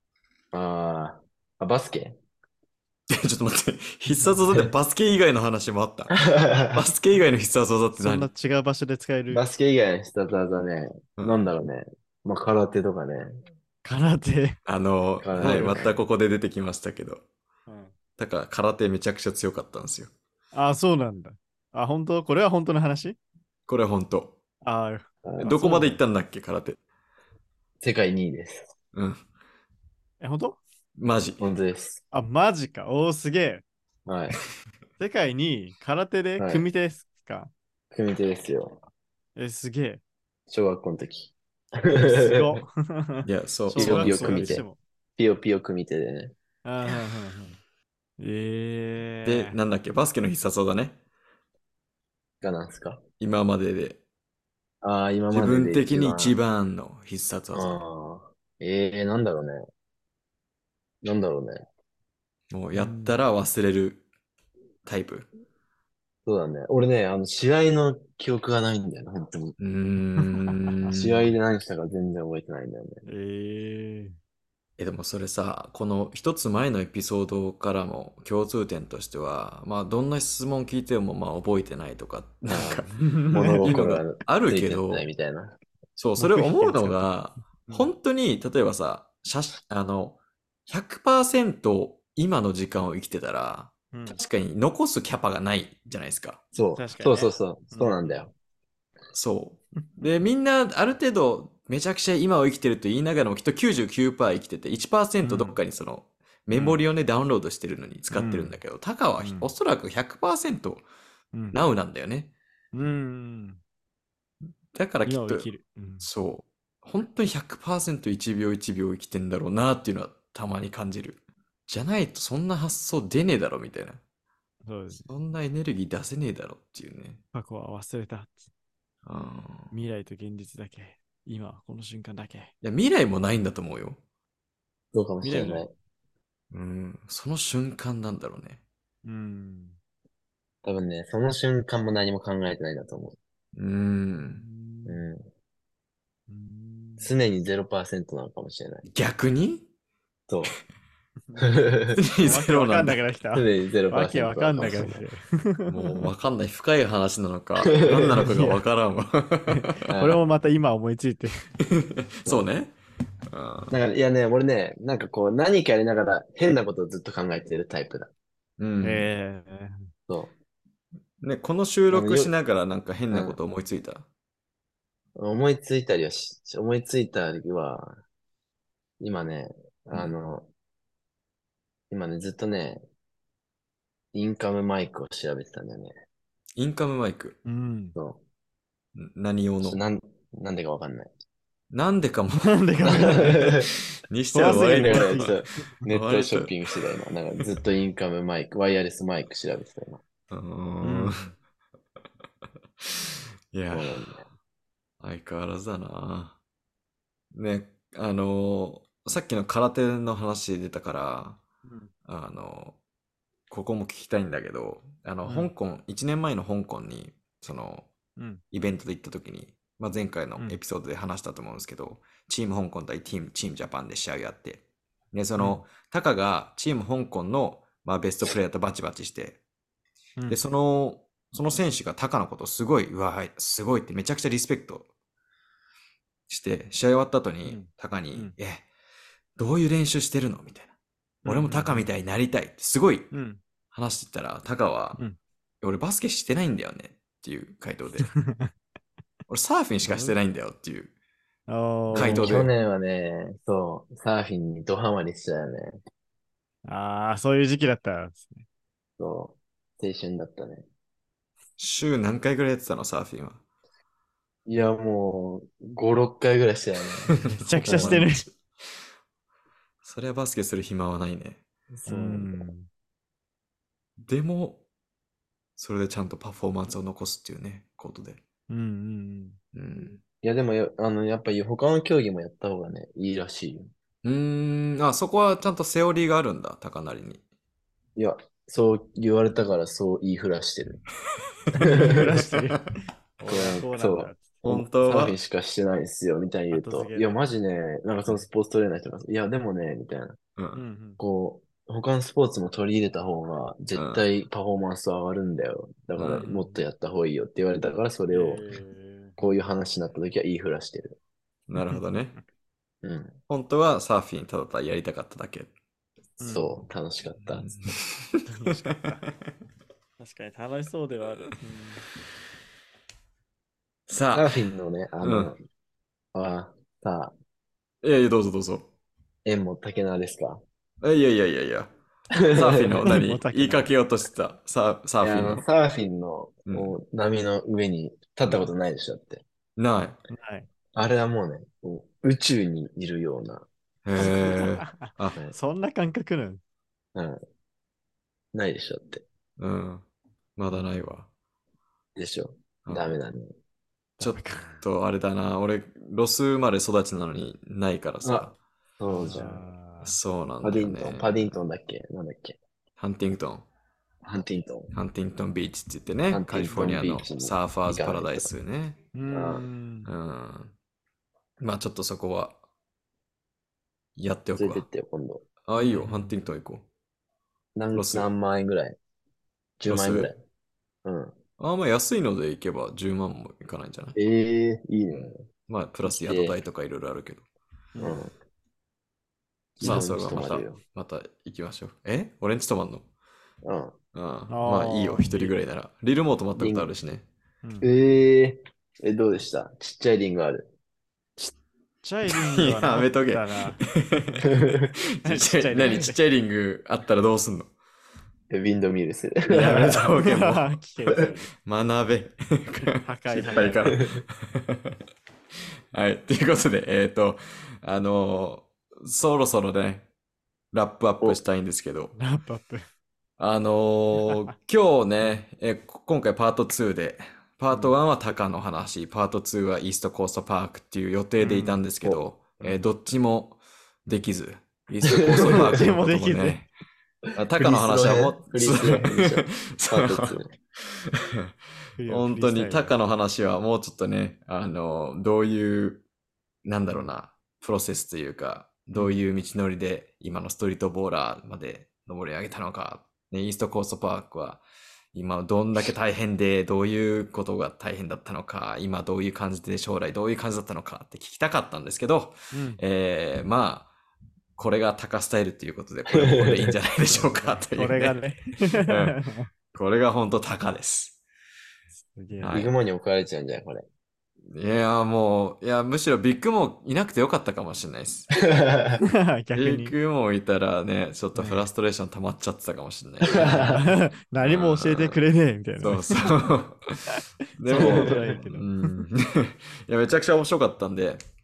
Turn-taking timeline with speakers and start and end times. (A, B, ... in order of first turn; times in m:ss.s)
0:00.5-0:02.2 A
0:03.1-0:06.2 B
0:04.1-0:04.5 C
0:06.1-0:06.8 A
0:06.7-0:08.3 B
0:07.9-0:09.4 C
0:09.3-0:13.4 A
0:13.8-0:14.6 C
0:14.6-0:17.2 B
0:15.2-0:16.0 A
0:17.7-0:17.9 C
0:18.2-0:20.1 B
0:20.5-0:23.2 C
0:23.7-0:24.4 B
0:24.6-0:26.0 C
0:25.2-0:25.6 A
0:25.4-0:26.8 B
0:27.8-0:28.7 A
0:28.9-0:29.2 B
0:30.2-0:30.6 C
0:31.0-0:31.4 B
0:31.4-0:32.0 A
0:32.1-0:33.6 C
0:34.1-0:34.4 A
0:35.0-0:37.5 C
0:36.4-0:36.6 A
0:37.9-0:38.8 A
0:39.4-0:40.0 C
0:40.5-0:42.6 A
0:41.9-0:44.8 C
0:43.2-0:44.6 B
0:43.7-0:44.6 A
0:45.2-0:46.3 A
0:46.6-0:47.6 C
0:48.2-0:49.6 C
0:49.2-0:51.0 B
0:52.4-0:53.0 A
0:53.2-0:54.0 B
0:54.8-0:56.4 A
0:55.3-0:57.8 B
0:57.5-0:59.6 A
1:01.0-1:01.6 A
1:02.5-1:04.0 B
1:02.7-1:03.2 C
1:04.8-1:05.3 B
1:06.2-1:09.6 A
1:09.6-1:11.2 B
1:10.2-1:11.0 C
1:10.9-1:13.0 A
1:13.1-1:14.2 C
1:14.8-1:25.1 B
1:22.5-1:25.6 A
1:23.0-1:23.7 C
1:26.0-1:36.4 B
1:26.2-1:27.9 C
1:33.9-1:34.2 C
1:36.5-1:38.3 A
1:36.8-1:38.0 C
1:39.1-1:50.8 B
1:39.7-1:40.2 C
1:45.2-1:45.6 C
1:46.5-1:46.8 C
1:48.1-1:48.6 C
1:49.2-1:49.5 C
1:51.3-1:51.6 C
1:51.5-1:52.3 B
1:52.7-1:53.6 C
1:54.7-1:55.5 B
1:55.0-1:56.1 C
1:56.0-2:04.0 B
2:04.6-2:05.0 C
2:05.0-2:07.2 B
2:07.3-2:08.5 C
2:09.0-2:09.7 B
2:09.7-2:12.5 C
2:12.6-2:14.0 B
2:14.9-2:15.7 A
2:15.2-2:15.6 C
2:16.5-2:18.6 B
2:19.0-2:19.8 C
2:20.6-2:23.2 A
2:23.6-2:24.4 B
2:24.3-2:25.0 C
2:24.9-2:25.2 A
2:26.3-2:27.1 C
2:27.0-2:28.8 A
2:28.9-2:29.6 B
2:30.3-2:30.6 A
2:31.2-2:31.6 C
2:31.4-2:32.0 A
2:32.0-2:33.0 B
2:32.2-2:36.1 C
2:33.3-2:35.0 A
2:35.7-2:39.9 B
2:37.6-2:38.4 A
2:38.2-2:38.6 C
2:39.5-2:41.5 C
2:39.9-2:40.2 A
2:41.6-2:42.7 B
2:43.3-2:43.7 B
2:43.7-2:48.1 A
2:48.6-2:49.1 B
2:48.8-2:49.9 C
2:50.1-2:50.3 A
2:51.2-2:54.0 B
2:51.9-2:52.3 A
2:53.1-2:53.4 A
2:55.2-2:58.0 A
2:59.0-3:00.5 A
3:01.9-3:02.8 A
3:04.1-3:05.9 A
3:06.6-3:07.4 B
3:07.4-3:08.0 C
3:07.9-3:08.2 A
3:08.9-3:09.8 B
3:09.6-3:11.1 A
3:11.7-3:13.6 B
3:12.4-3:13.7 C
3:12.8-3:13.7 A
3:14.1-3:16.5 B
3:14.3-3:15.4 C
3:14.4-3:20.0 A
3:20.3-3:21.3 B
3:20.8-3:21.3 C
3:22.8-3:24.1 B
3:23.7-3:24.2 A
3:25.0-3:26.4 B
3:27.3-3:31.4 B
3:31.6-3:31.9 C
3:32.1-3:32.8 B
3:33.5-3:37.9 B
3:38.2-3:38.4 C
3:38.5-3:49.4 B
3:45.4-3:45.6 C
3:50.3-3:54.9 B
3:56.3-3:58.6 B
3:57.4-3:58.4 C
3:59.4-4:00.7 B
4:01.2-4:01.9 C
4:01.2-4:03.1 B
4:03.1-4:03.4 C
4:03.7-4:05.0 B
4:05.6-4:08.1 B
4:08.0-4:08.5 C
4:09.3-4:10.9 B
4:09.8-4:10.2 C
4:11.5-4:12.5 C
4:11.9-4:12.5 B
4:11.9-4:15.8 A
4:16.6-4:18.4 C
4:19.0-4:20.6 A
4:21.6-4:23.4 B
4:24.4-4:27.1 A
4:27.1-4:28.4 B
4:27.4-4:28.3 C
4:27.7-4:28.0 A
4:29.8-4:31.4 B
4:31.7-4:32.4 A
4:31.9-4:32.7 C
4:34.0-4:34.6 B
4:35.6-4:38.2 B
4:38.5-4:39.4 C
4:39.5-4:40.0 B
4:40.2-4:43.7 A
4:44.0-4:47.2 B
4:48.0-4:50.8 A
4:51.6-4:52.2 A
4:51.6-4:55.2 C
4:53.2-5:00.2 A
4:54.4-4:55.2 B
4:56.5-4:57.1 C
5:00.4-5:00.6 B
5:00.6-5:01.0 C
5:01.0-5:08.4 A
5:03.7-5:04.0 B
5:06.0-5:06.2 B
5:06.2-5:06.6 C
5:08.1-5:09.2 C
5:09.2-5:11.0 A
5:11.5-5:12.1 B
5:11.6-5:12.2 C
5:12.8-5:13.2 A
5:13.3-5:15.5 B
5:16.2-5:16.6 C
5:16.2-5:17.6 A
5:17.4-5:18.3 B
5:18.3-5:19.1 C
5:20.0-5:21.8 C
5:23.9-5:24.3 B
5:24.1-5:25.4 A
5:25.0-5:25.3 B
5:26.1-5:27.1 A
5:27.8-5:28.7 B
5:29.2-5:30.4 A
5:30.8-5:31.7 B
5:32.1-5:32.9 A
5:32.3-5:35.4 B
5:32.8-5:33.7 C
5:35.0-5:39.2 A
5:36.5-5:36.7 B
5:39.6-5:40.0 B
5:40.1-5:40.5 C
5:40.7-5:44.4 A
5:43.8-5:45.2 B
5:44.0-5:46.4 C
5:46.9-5:47.2 A
5:48.3-5:49.0 A
5:49.4-5:49.8 B
5:50.4-5:51.1 B
5:50.5-5:50.7 C
5:52.0-5:53.3 A
5:54.0-5:54.6 C
5:54.0-5:58.4 B
5:58.0-5:59.4 A
5:59.0-6:00.0 C
5:59.8-6:01.1 B
6:00.4-6:02.4 A
6:02.8-6:03.4 B
6:04.0-6:04.7 A
6:04.7-6:08.8 B
6:06.1-6:08.3 A
6:06.5-6:06.8 C
6:08.9-6:09.9 C
6:09.1-6:09.4 A
6:09.9-6:10.5 B
6:11.4-6:12.4 B
6:14.0-6:14.6 B
6:14.4-6:15.2 A
6:15.4-6:16.6 B
6:15.6-6:16.1 C
6:17.6-6:18.8 A
6:17.7-6:18.1 B
6:19.6-6:20.2 A
6:19.6-6:20.1 B
6:20.8-6:21.1 A
6:21.4-6:24.0 B
6:23.9-6:25.2 A
6:24.9-6:27.2 B
6:25.8-6:26.4 A
6:27.7-6:28.0 C
6:27.8-6:28.1 A
6:29.6-6:30.6 A
6:29.6-6:32.9 B
6:29.6-6:29.9 C
6:33.4-6:33.8 A
6:33.9-6:37.1 B
6:34.3-6:35.4 C
6:36.4-6:36.7 A
6:37.4-6:37.7 C
6:37.6-6:40.5 A
6:41.2-6:44.4 C
6:42.1-6:44.4 B
6:45.0-6:47.5 B
6:45.0-6:46.0 C
6:48.3-6:49.7 A
6:49.3-6:54.8 B
6:49.4-6:51.3 C
6:52.6-6:53.8 C
6:53.6-6:54.0 A
6:55.7-6:59.9 B
7:00.5-7:01.9 B
7:02.0-7:02.6 C
7:03.2-7:16.5 B
7:07.5-7:07.7 C
7:11.2-7:11.6 C
7:12.4-7:12.6 C
7:15.0-7:16.4 C
7:15.0-7:15.6 A
7:17.2-7:21.3 B
7:17.3-7:20.3 A
7:21.8-7:22.7 C
7:21.9-7:25.8 B
7:26.4-7:34.4 B
7:34.9-7:43.7 B
7:42.3-7:42.6 C
7:44.4-7:48.0 B
7:45.9-7:46.6 A
7:46.9-7:49.3 C
7:48.6-7:49.0 B
7:49.5-7:51.0 B
7:51.8-7:52.4 C
7:52.2-7:52.5 B
7:52.3-7:53.6 A
7:54.3-7:58.1 B
7:58.2-7:58.8 A
7:58.8-7:59.7 C
7:59.3-8:03.5 B
8:01.1-8:01.4 C
8:03.1-8:03.6 A
8:03.1-8:06.2 C
8:04.2-8:05.0 B
8:05.6-8:11.0 B
8:07.4-8:08.8 C
8:07.5-8:08.2 A